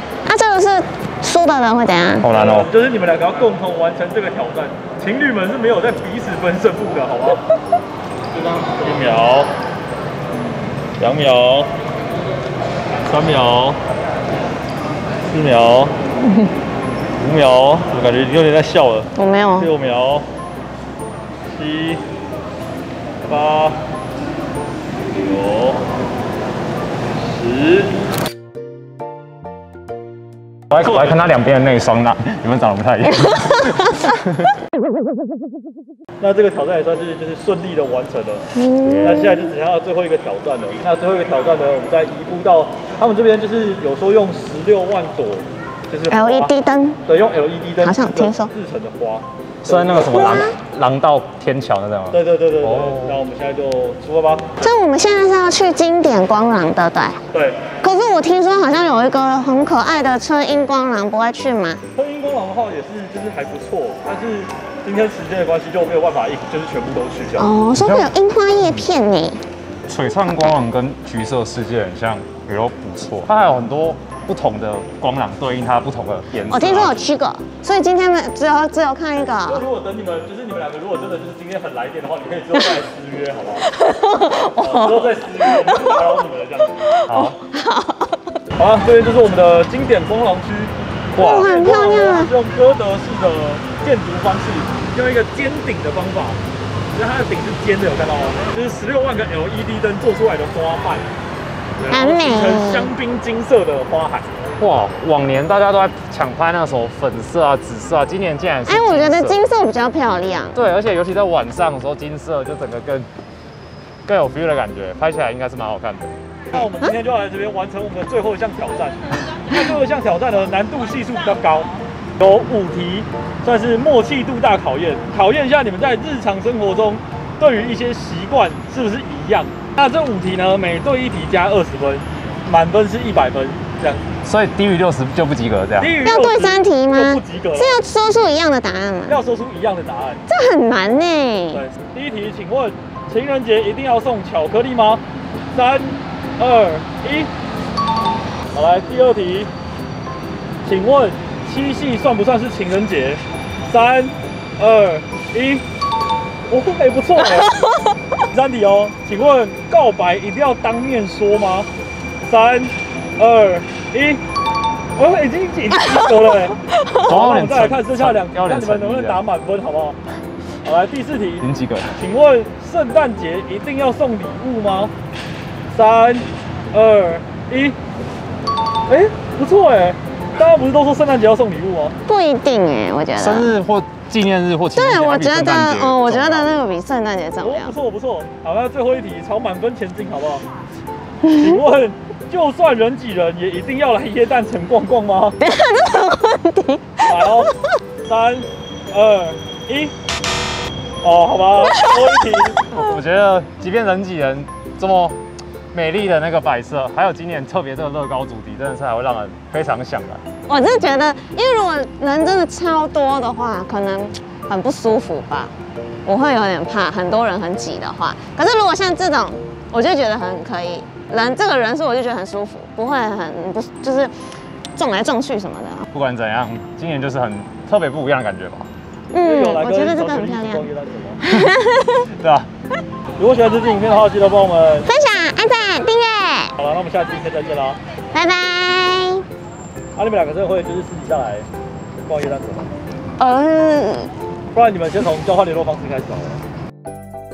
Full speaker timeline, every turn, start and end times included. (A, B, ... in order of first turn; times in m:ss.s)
0:00.2-0:02.3 A
0:02.2-0:02.7 B
0:02.3-0:07.4 C
0:08.8-0:09.5 C
0:11.0-0:11.7 C
0:13.1-0:13.8 C
0:15.2-0:16.0 C
0:17.2-0:20.3 C
0:19.2-0:19.7 A
0:21.5-0:22.0 C
0:23.2-0:23.8 C
0:25.1-0:25.8 C
0:27.3-0:27.9 C
0:30.7-0:34.5 B
0:30.7-0:31.2 C
0:36.2-0:38.4 C
0:38.5-0:39.5 A
0:39.0-0:46.5 C
0:46.1-0:47.0 A
0:47.0-0:50.2 C
0:47.8-0:48.5 A
0:49.6-0:53.2 B
0:50.1-0:50.6 A
0:52.1-0:54.5 C
0:54.6-0:57.2 A
0:57.3-0:57.6 C
0:57.8-1:01.8 A
1:01.9-1:07.5 C
1:07.4-1:09.4 A
1:07.8-1:08.8 B
1:09.9-1:17.0 B
1:16.5-1:19.6 A
1:19.5-1:23.7 C
1:23.7-1:26.1 A
1:24.6-1:26.8 C
1:26.8-1:28.3 A
1:27.1-1:27.4 B
1:28.6-1:36.4 C
1:31.2-1:32.3 A
1:36.9-1:41.0 C
1:41.8-1:44.3 C
1:41.9-1:42.9 A
1:44.6-1:49.4 B
1:48.7-1:50.6 A
1:50.5-1:53.1 B
1:54.0-1:56.1 B
1:56.5-2:14.0 C
2:14.2-2:16.0 B
2:15.8-2:17.8 C
2:16.0-2:19.2 A
2:19.1-2:20.2 C
2:20.3-2:21.6 A
2:21.5-2:25.0 C
2:25.5-2:27.3 C
2:28.5-2:29.5 C
2:30.6-2:35.6 C
2:36.5-2:37.6 C
2:38.2-2:41.7 C
2:42.2-2:44.2 C
2:45.0-2:50.0 C
2:46.8-2:47.1 A
2:47.0-2:49.2 B
2:50.6-2:54.9 C
2:51.4-2:52.0 B
2:55.7-2:57.8 C
2:58.9-3:01.9 C
3:02.1-3:03.5 A
3:03.2-3:06.5 B
3:04.7-3:07.7 A
3:07.4-3:10.4 C
3:11.2-3:11.6 A
3:11.3-3:15.4 C
3:15.4-3:17.5 A
3:17.0-3:19.9 C
3:21.0-3:22.6 C
3:21.6-3:22.9 A
3:22.7-3:25.2 B
3:25.7-3:30.2 B
3:30.5-3:35.5 A
3:36.0-3:44.1 A
3:44.8-3:45.8 A
3:45.9-3:48.7 B
3:49.1-3:50.6 A
3:49.2-3:51.2 C
3:51.2-3:52.1 A
3:52.2-3:52.5 B
3:53.2-3:54.9 C
3:54.9-3:56.5 A
3:56.6-3:57.8 C
3:58.1-3:59.2 A
4:00.0-4:01.5 C
4:02.0-4:02.7 C
4:03.2-4:04.1 A
4:04.5-4:06.4 C